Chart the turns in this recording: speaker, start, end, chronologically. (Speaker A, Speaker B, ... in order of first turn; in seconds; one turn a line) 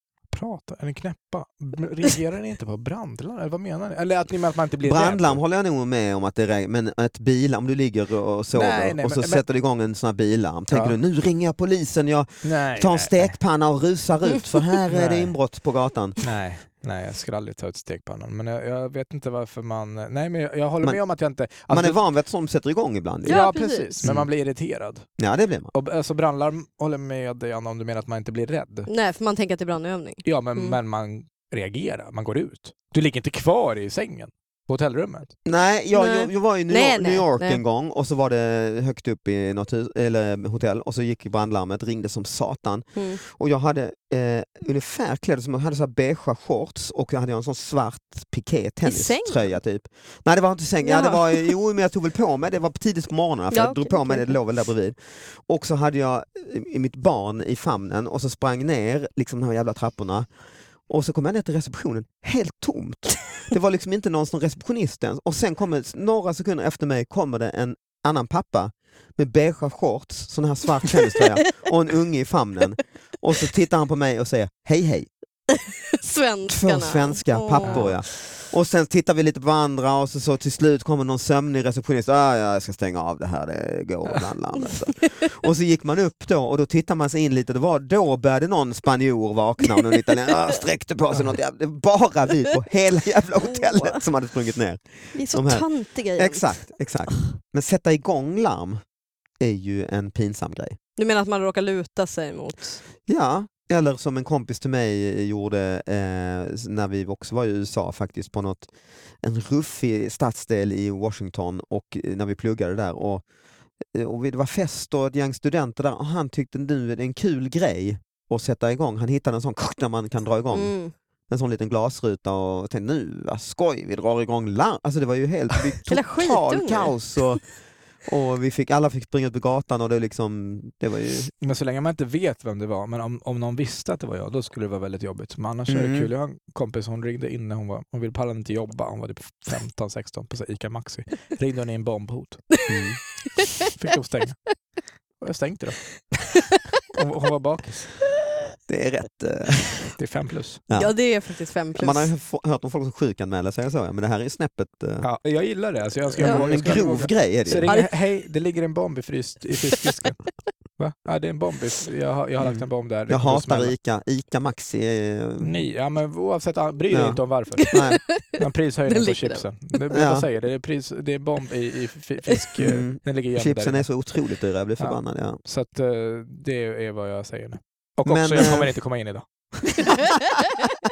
Speaker A: 0.3-5.4
Speaker B: 4.8-16.2
Speaker A: 8.5-9.4
Speaker A: 10.7-11.0
Speaker A: 12.4-13.4
Speaker A: 14.9-15.3
Speaker A: 16.2-22.0
Speaker B: 21.7-23.4
Speaker A: 23.2-25.1
Speaker C: 23.2-24.0
Speaker B: 24.0-24.3
Speaker B: 25.2-25.7
Speaker A: 25.7-28.9
Speaker C: 28.9-30.8
Speaker A: 30.2-35.3
Speaker B: 35.4-60.2
Speaker C: 35.9-37.6
Speaker C: 48.8-49.6
Speaker C: 50.8-51.5
Speaker C: 53.5-54.4
Speaker B: 60.9-75.1
Speaker C: 75.5-78.0
Speaker B: 76.5-98.8
Speaker A: 77.6-77.9
Speaker C: 89.6-90.3
Speaker C: 93.4-94.0
Speaker C: 95.1-96.8
Speaker B: 99.4-100.8
Speaker C: 101.0-102.8
Speaker B: 103.1-108.7
Speaker B: 109.2-113.2
Speaker B: 113.9-120.7
Speaker C: 120.5-120.9
Speaker B: 121.3-127.5
Speaker C: 125.9-127.3
Speaker B: 128.1-131.3
Speaker A: 131.4-142.5
Speaker B: 135.7-136.1
Speaker B: 142.7-143.0
Speaker C: 143.3-143.7
Speaker A: 143.6-144.4
Speaker A: 145.2-145.8
Speaker C: 146.3-146.8
Speaker A: 146.9-147.9
Speaker B: 148.7-149.9
Speaker A: 150.0-150.6
Speaker B: 150.7-150.9
Speaker C: 150.7-152.1
Speaker B: 151.7-155.1
Speaker A: 155.0-160.2
Speaker B: 156.2-157.7
Speaker C: 156.2-156.5
Speaker C: 157.7-157.9
Speaker A: 160.8-163.7
Speaker B: 162.4-165.5
Speaker A: 165.4-167.8
Speaker B: 166.9-168.0
Speaker C: 167.6-169.8
Speaker A: 168.4-173.9
Speaker B: 169.9-170.3
Speaker B: 172.6-175.4
Speaker A: 174.8-179.8
Speaker B: 178.1-178.7
Speaker C: 179.8-180.6
Speaker B: 179.8-180.6